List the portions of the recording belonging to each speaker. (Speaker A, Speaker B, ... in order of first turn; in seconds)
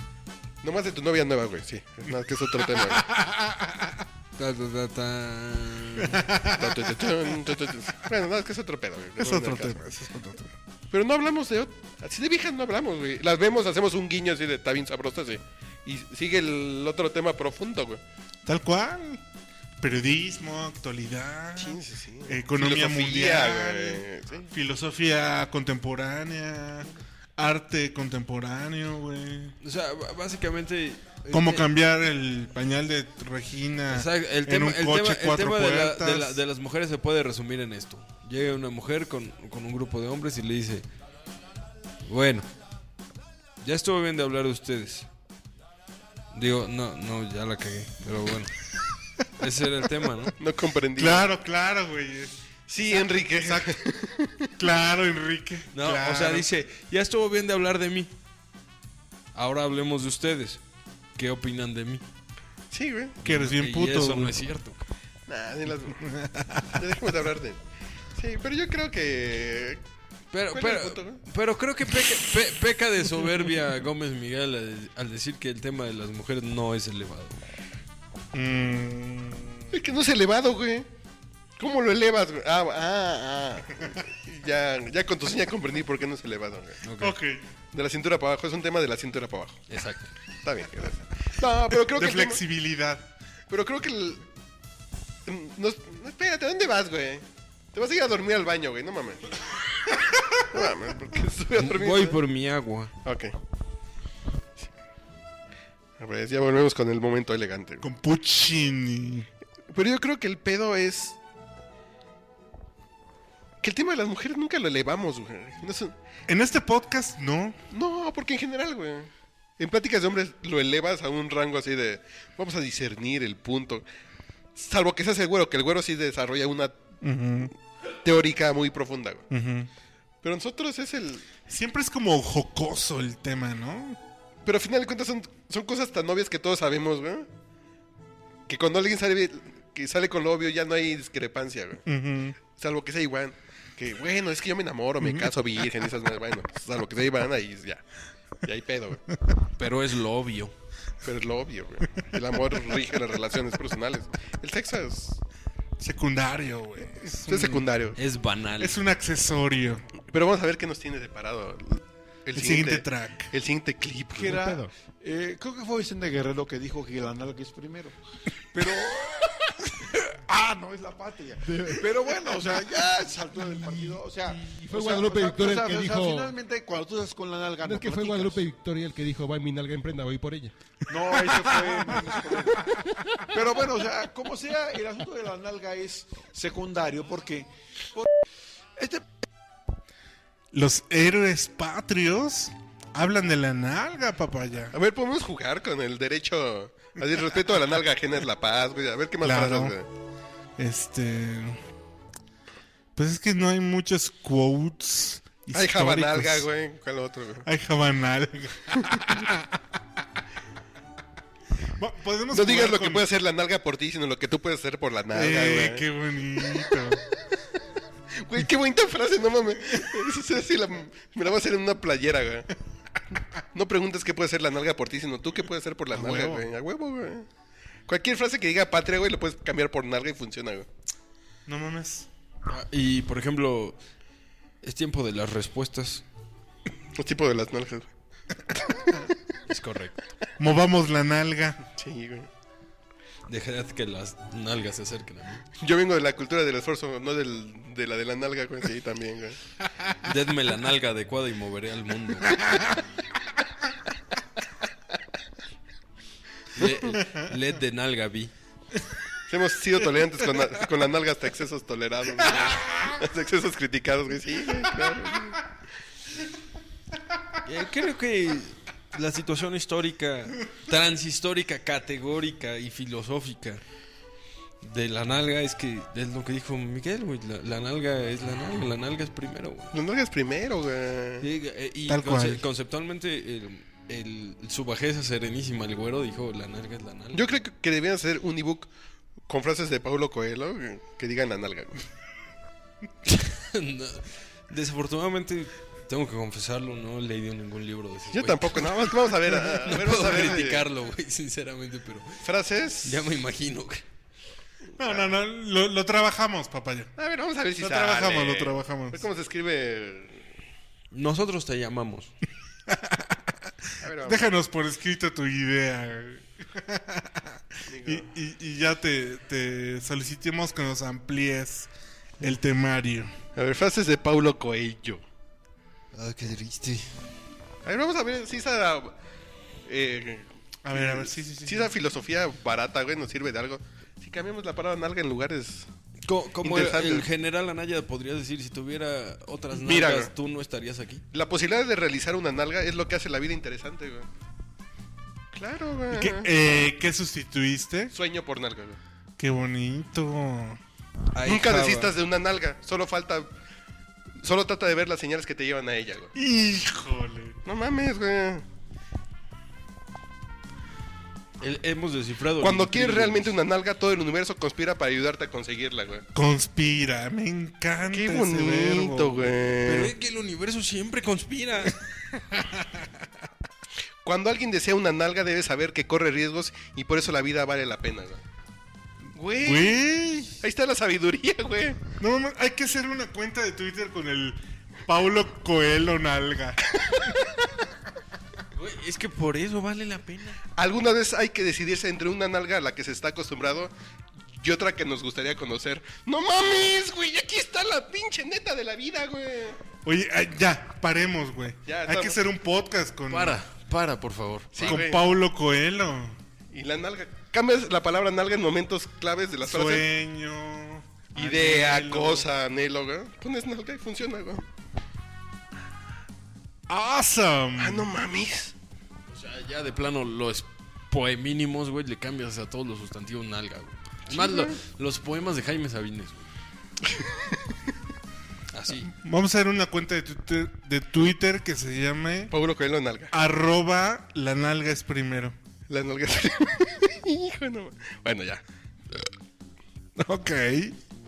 Speaker A: 0.6-3.1, 6.5-9.8, 10.9-18.0, 21.6-24.5, 50.4-51.3, 52.7-54.5, 62.7-63.2, 65.3-66.0, 66.7-67.6, 68.2-69.8, 70.5-71.2, 79.7-80.9, 81.6-86.8, 87.7-89.6, 90.4-92.4, 93.5-94.3, 95.3-99.4, 100.5-102.2, 103.0-103.3, 106.0-107.9, 109.7-111.2, 113.6-115.9, 117.7-123.8, 124.6-126.8, 128.0-129.3, 130.2-131.2, 134.4-137.3, 138.5-141.8, 142.6-147.8, 148.4-149.0, 151.0-155.2, 157.3-158.0, 160.1-164.4, 194.7-199.9, 205.5-207.5, 212.3-215.8, 218.2-222.5, 223.5-227.3, 227.9-230.7, 236.9-237.9, 238.5-239.0, 241.8-242.3, 245.6-249.4, 259.3-265.5, 279.7-281.3, 287.1-288.7, 289.3-291.8, 298.1-300.6, 302.2-303.1, 304.8-305.1, 307.0-310.3, 313.8-314.3, 317.7-318.1, 323.4-325.0, 327.6-328.9, 329.7-335.7, 336.4-337.1, 339.5-340.1, 341.1-344.1, 345.3-346.3, 347.9-348.8, 351.2-353.3, 354.2-356.1, 357.4-358.4, 362.4-366.1, 367.9-369.9, 374.0-378.2, 379.1-379.9, 380.4-381.8, 390.6-393.7, 394.3-399.6, 401.7-402.2, 404.5-405.1, 406.5-409.9, 411.1-414.4, 417.6-418.5, 424.1-424.6, 432.3-433.1, 435.7-439.1
Speaker B: 2.5-4.0, 6.0-7.3, 9.2-10.5, 18.5-19.2, 19.8-29.6, 31.3-36.4, 51.0-53.8, 54.6-56.5, 63.2-64.4, 66.0-66.9, 78.3-79.7, 87.0-87.4, 91.7-93.1, 107.8-109.3, 116.3-117.6, 127.0-127.5, 129.3-129.7, 131.5-134.0, 141.9-142.4, 145.0-145.3, 155.8-157.7, 158.6-159.9, 162.3-163.3, 190.5-194.8, 199.2-199.8, 200.6-201.6, 203.0-206.5, 207.4-209.6, 211.8-213.1, 215.1-217.0, 225.9-226.5, 231.5-232.1, 240.4-241.6, 252.4-252.8, 256.9-257.3, 262.3-262.7, 281.9-282.4, 304.8-306.9, 307.6-309.0, 312.7-313.3, 313.9-321.7, 322.2-323.1, 330.6-331.7, 345.9-347.9, 349.2-350.6, 356.1-357.4, 366.1-369.4, 372.3-372.8, 379.4-380.3, 382.0-387.1, 399.8-403.4, 404.6-406.2, 409.4-412.3, 416.7-417.9, 428.9-432.3, 433.1-435.4, 440.0-440.8
Speaker C: 4.4-6.2, 29.6-31.7, 33.9-40.9, 42.0-42.5, 43.6-45.1, 46.3-48.6, 49.4-50.3, 55.7-58.1, 59.3-60.6, 61.2-62.0, 63.2-64.8, 70.3-77.4, 86.8-87.2, 89.7-90.1, 101.6-102.9, 149.6-150.5, 158.0-158.8, 232.5-233.8, 234.6-236.0, 239.5-240.0, 243.3-245.4, 250.0-252.4, 256.6-258.3, 267.4-273.6, 274.6-279.7, 281.2-287.2, 293.1-302.2, 302.8-303.8, 310.9-312.1, 325.9-326.9, 336.1-341.0, 351.1-351.9, 361.4-363.4, 369.6-371.8, 388.5-390.4, 403.1-404.8, 419.1-426.3, 428.5-428.9
Speaker D: 164.2-164.7, 171.4-172.3, 173.4-176.3, 177.6-180.5
Speaker E: 164.2-168.0, 168.5-178.4, 180.9-182.8, 183.3-188.1, 188.8-189.0